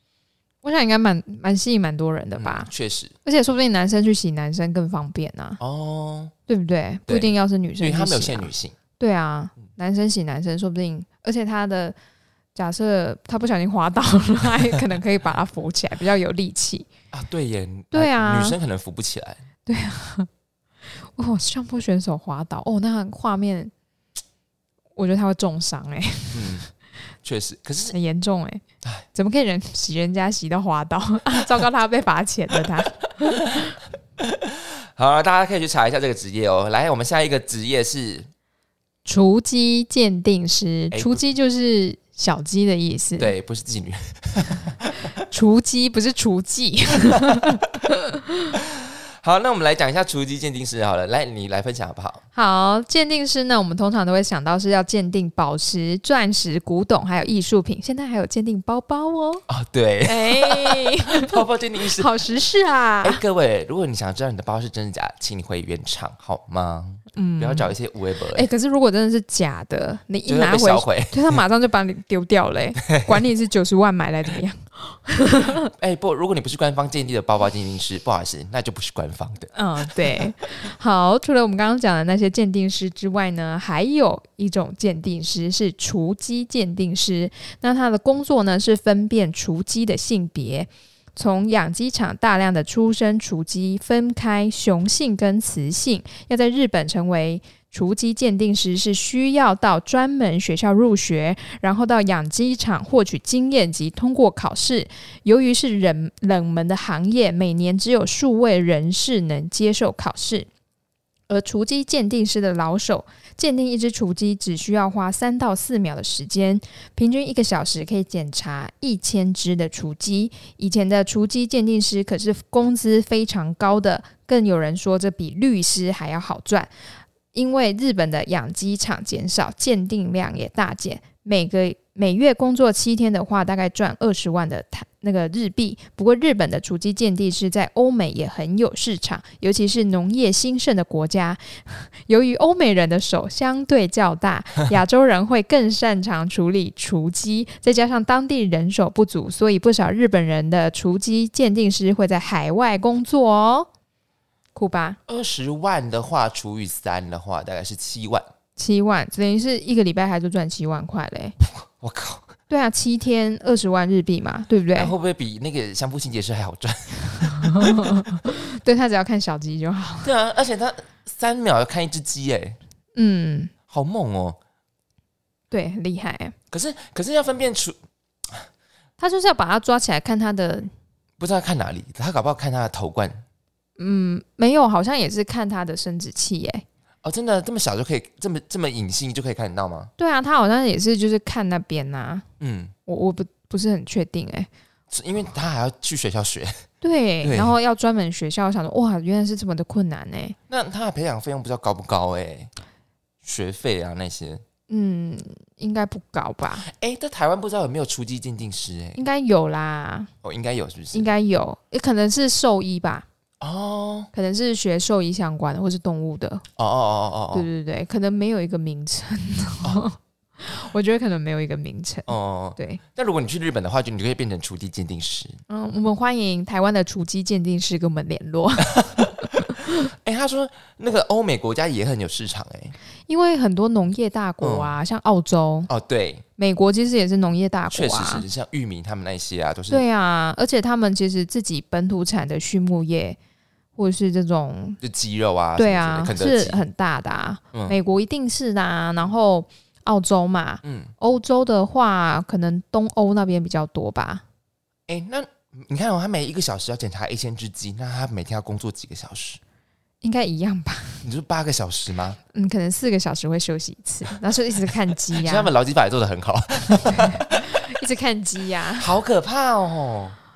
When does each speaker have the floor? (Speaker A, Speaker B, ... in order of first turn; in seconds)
Speaker A: 0.6-2.7, 3.2-5.6, 6.5-11.9, 12.6-16.9, 17.9-18.6, 19.7-20.3, 21.1-23.7, 24.9-26.7, 27.9-28.6, 29.1-33.8, 39.0-43.3, 45.3-48.5, 52.4-59.4, 60.0-61.4, 62.0-63.2, 67.1-67.7, 68.3-75.7, 79.5-110.5, 111.3-126.7, 127.3-153.7, 154.6-155.0, 158.6-161.4, 162.5-164.9, 167.3-170.1, 172.9-173.5, 175.5-176.3, 179.0-180.7, 183.8-186.6, 190.0-192.2, 192.9-194.5, 196.8-200.4, 204.7-206.7, 208.9-210.1, 210.9-213.1, 214.1-216.4, 217.3-222.8, 225.5-229.8, 233.1-235.7, 236.4-238.2, 239.7-243.2, 243.8-244.8, 245.6-254.2, 260.0-261.1, 262.3-265.5, 266.7-268.9
Speaker B: 2.4-3.1, 5.6-6.3, 7.1-8.8, 17.1-19.4, 26.3-26.6, 27.2-27.9, 33.2-33.7, 34.2-38.3, 40.9-41.2, 43.2-45.0, 48.6-52.2, 59.5-62.1, 63.0-68.5, 70.3-71.4, 72.8-73.2, 75.7-79.5, 155.1-158.3, 161.6-162.3, 164.8-168.2, 170.0-172.6, 173.7-174.4, 176.5-178.5, 181.2-183.2, 187.0-189.9, 192.4-192.7, 194.9-196.6, 197.2-197.5, 200.5-202.5, 203.2-204.4, 206.6-209.0, 210.2-211.1, 213.4-214.1, 216.6-217.5, 222.1-225.4, 228.7-232.8, 234.4-234.7, 235.7-236.2, 237.7-239.8, 244.8-246.6, 250.6-250.9, 254.9-259.4, 261.0-262.2, 265.2-267.4, 268.8-270.2